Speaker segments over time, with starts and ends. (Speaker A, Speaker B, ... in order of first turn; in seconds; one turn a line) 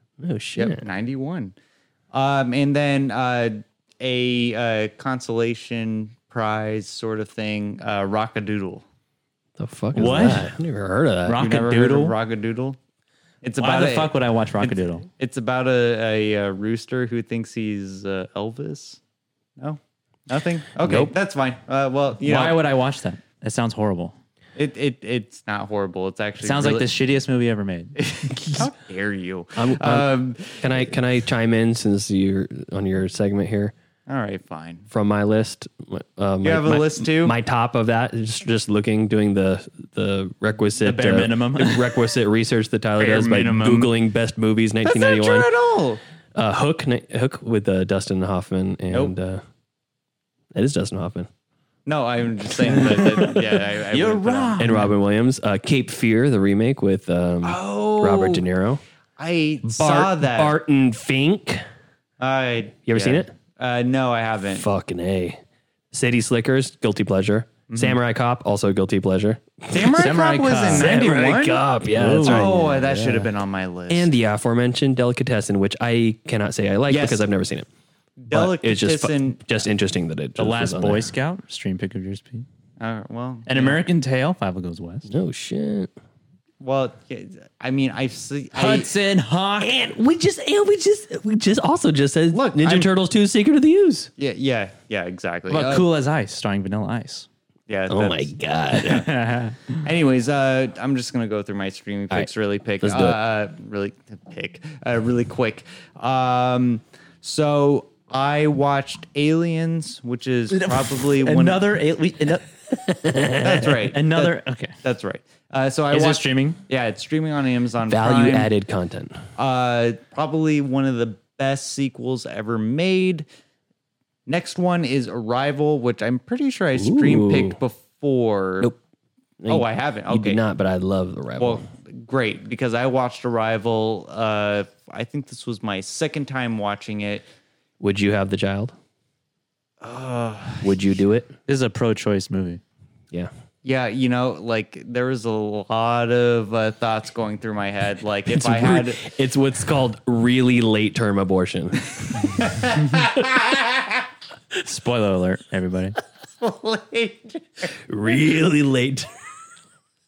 Speaker A: 0.2-0.8
Speaker B: 0.6-1.5
Speaker B: 2.1-8.8
Speaker A: 9.6-11.4
Speaker C: 9.9-10.5
Speaker C: 11.3-12.1
Speaker B: 11.4-12.8
Speaker B: 13.4-19.0
Speaker C: 13.6-15.1
Speaker B: 19.6-22.6
Speaker A: 20.9-21.1
Speaker C: 22.2-24.1
Speaker B: 24.6-26.9
Speaker C: 26.4-28.0
Speaker B: 28.0-30.8
Speaker A: 29.6-33.7
Speaker B: 34.1-34.9
Speaker A: 34.9-45.5
Speaker B: 36.4-37.4
Speaker C: 40.8-41.9
Speaker C: 43.0-43.9
Speaker B: 44.9-46.0
Speaker A: 46.4-49.4
Speaker A: 50.5-51.3
Speaker B: 51.9-54.7
Speaker C: 52.8-53.3
Speaker A: 52.8-53.3
Speaker C: 53.9-54.9
Speaker A: 54.6-58.8
Speaker B: 57.4-58.5
Speaker B: 59.2-60.6
Speaker A: 59.6-61.6
Speaker B: 62.2-64.7
Speaker A: 62.9-63.3
Speaker A: 64.5-65.4
Speaker A: 65.9-73.1
Speaker B: 67.7-68.0
Speaker B: 69.7-71.7
Speaker C: 70.0-71.2
Speaker C: 71.8-73.2
Speaker B: 72.2-74.1
Speaker A: 73.9-77.7
Speaker B: 76.9-77.3
Speaker B: 78.2-79.4
Speaker A: 78.3-81.1
Speaker C: 80.4-82.5
Speaker B: 82.8-83.8
Speaker C: 83.5-85.1
Speaker A: 85.1-85.9
Speaker B: 86.6-88.9
Speaker C: 88.5-89.8
Speaker A: 89.6-94.1
Speaker B: 92.3-92.9
Speaker B: 94.2-95.9
Speaker C: 95.5-97.3
Speaker B: 97.7-98.3
Speaker A: 97.9-99.1
Speaker C: 98.8-99.7
Speaker B: 99.7-111.6
Speaker A: 102.8-103.2
Speaker C: 110.5-112.5
Speaker A: 112.7-113.7
Speaker B: 113.4-118.5
Speaker C: 113.9-114.8
Speaker C: 115.9-116.6
Speaker A: 117.9-119.2
Speaker B: 119.4-123.3
Speaker B: 124.3-128.7
Speaker A: 126.7-127.6
Speaker A: 129.4-131.7
Speaker B: 129.5-130.4
Speaker B: 131.4-137.3
Speaker A: 137.8-138.7
Speaker B: 139.8-140.8
Speaker A: 140.6-141.3
Speaker C: 141.5-142.6
Speaker B: 143.6-149.1
Speaker A: 148.3-152.4
Speaker B: 152.4-154.0
Speaker C: 154.6-155.9
Speaker B: 156.4-157.8
Speaker A: 157.9-159.1